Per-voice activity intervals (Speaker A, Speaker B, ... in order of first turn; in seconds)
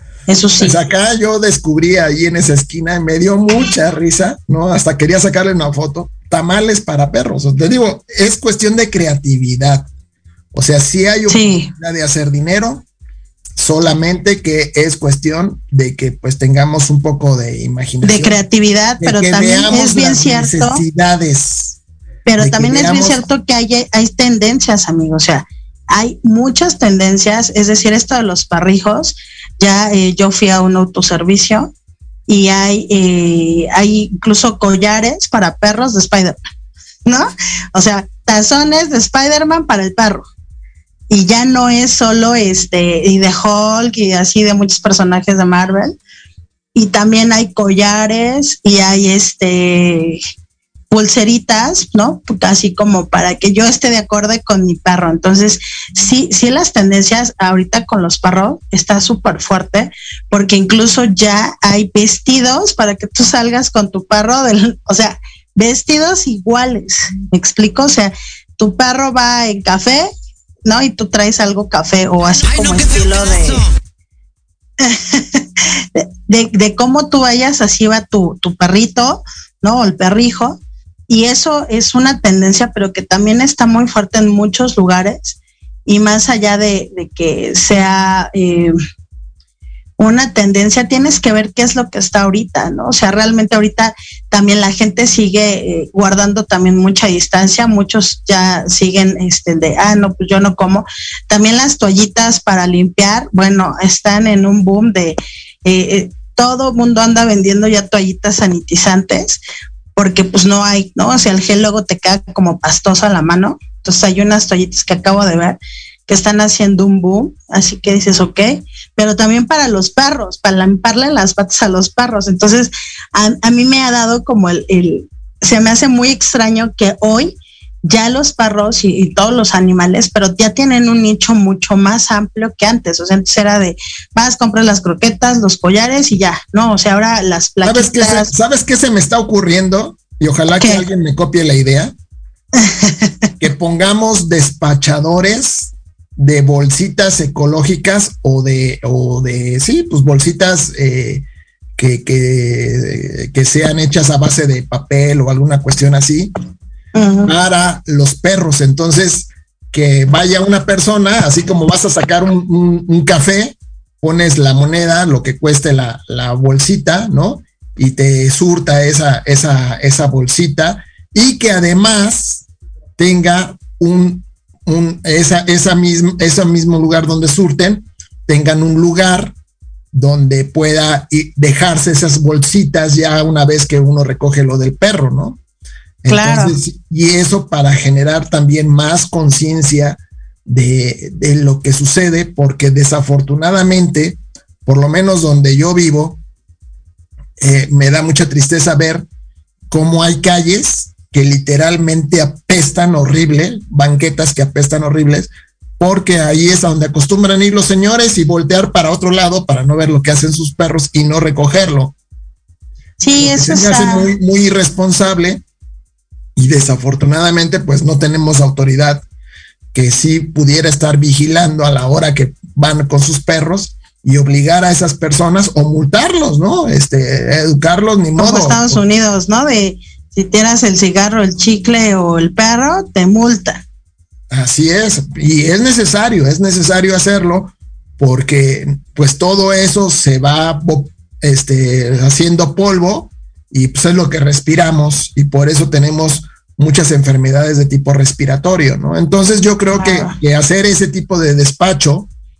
Speaker A: 0.3-0.8, 11.3-11.7, 18.0-20.8, 22.2-31.7, 32.3-36.5, 37.0-40.3, 41.1-46.0, 46.7-50.2, 50.9-70.1, 70.7-73.6, 74.8-88.7, 90.0-109.4, 110.0-138.3, 140.6-140.8, 142.6-143.1, 156.9-157.3, 186.1-186.6, 213.0-214.1, 228.2-233.6, 249.7-250.2
Speaker B: 0.6-9.9, 10.5-12.8, 13.6-18.4, 19.0-21.8, 22.4-23.2, 137.6-141.9, 143.4-151.2, 151.8-156.3, 157.2-172.4, 173.0-179.3, 179.9-185.4, 186.0-196.2, 197.4-199.1, 199.7-211.9, 213.2-215.4, 216.3-219.0, 219.7-228.8, 234.3-252.1